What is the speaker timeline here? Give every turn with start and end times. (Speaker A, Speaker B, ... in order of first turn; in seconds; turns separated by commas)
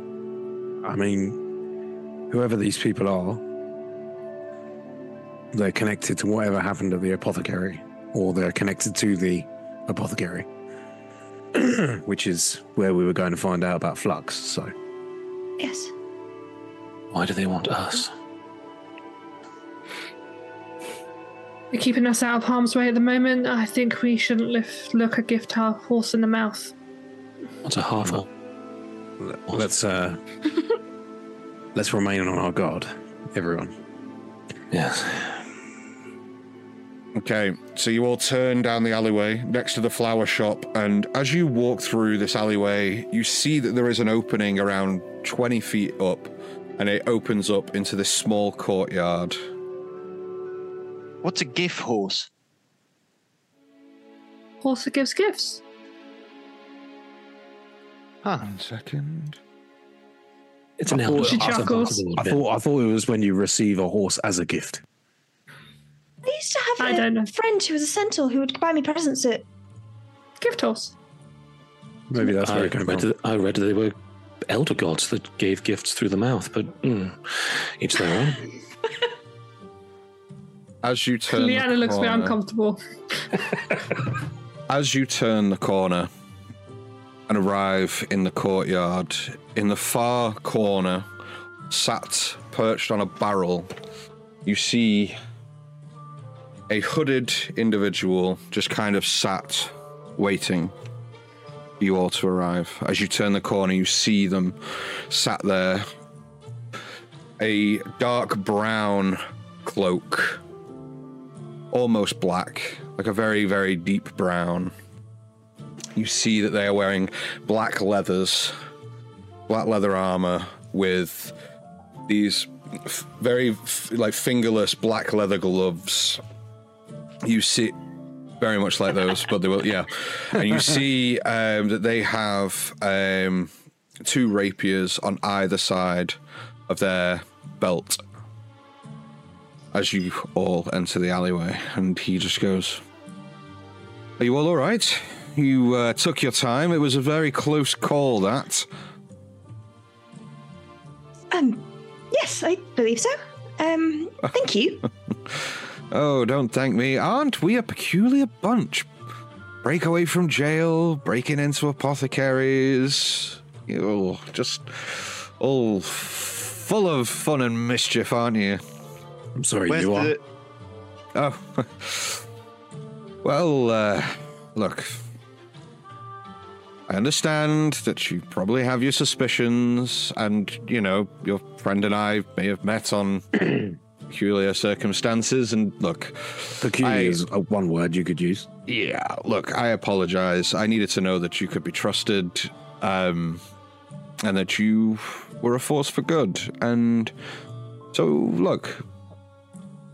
Speaker A: 0.8-1.4, Speaker A: 2.3-3.4, Speaker A: 5.5-10.5, Speaker A: 11.5-14.7, Speaker B: 15.6-15.9, Speaker C: 17.1-18.1, Speaker D: 21.7-26.7, Speaker C: 27.6-28.3, Speaker A: 29.2-30.2, Speaker A: 31.7-33.7, Speaker C: 34.7-35.5, Speaker E: 37.1-49.4, Speaker F: 51.2-52.3, Speaker D: 54.6-55.6, Speaker F: 58.2-58.5, Speaker E: 58.4-59.4, Speaker C: 60.8-62.4, Speaker A: 60.9-64.8, Speaker D: 61.2-62.0, Speaker B: 66.2-69.5, Speaker D: 66.8-67.3, Speaker D: 70.4-70.9, Speaker A: 72.1-73.1, Speaker C: 72.2-74.0, Speaker C: 74.5-78.5, Speaker E: 80.8-82.3, Speaker D: 81.3-83.8, Speaker E: 84.7-86.1, Speaker E: 87.3-91.1, Speaker E: 91.7-93.7, Speaker E: 94.4-95.2, Speaker E: 96.7-100.7, Speaker E: 101.8-105.9, Speaker E: 107.4-110.4, Speaker E: 111.7-114.7, Speaker E: 115.9-118.5, Speaker E: 119.5-121.3, Speaker E: 122.1-126.2, Speaker E: 127.2-127.8, Speaker E: 128.4-138.0, Speaker E: 139.7-142.8, Speaker E: 144.2-148.7, Speaker B: 151.3-154.9, Speaker E: 155.1-158.9, Speaker E: 159.6-168.6, Speaker A: 169.3-170.1, Speaker F: 169.7-170.2, Speaker E: 171.1-172.2, Speaker E: 173.2-175.0, Speaker E: 176.9-187.2, Speaker A: 186.6-188.5, Speaker E: 188.7-193.4, Speaker E: 194.2-197.1, Speaker E: 197.9-198.8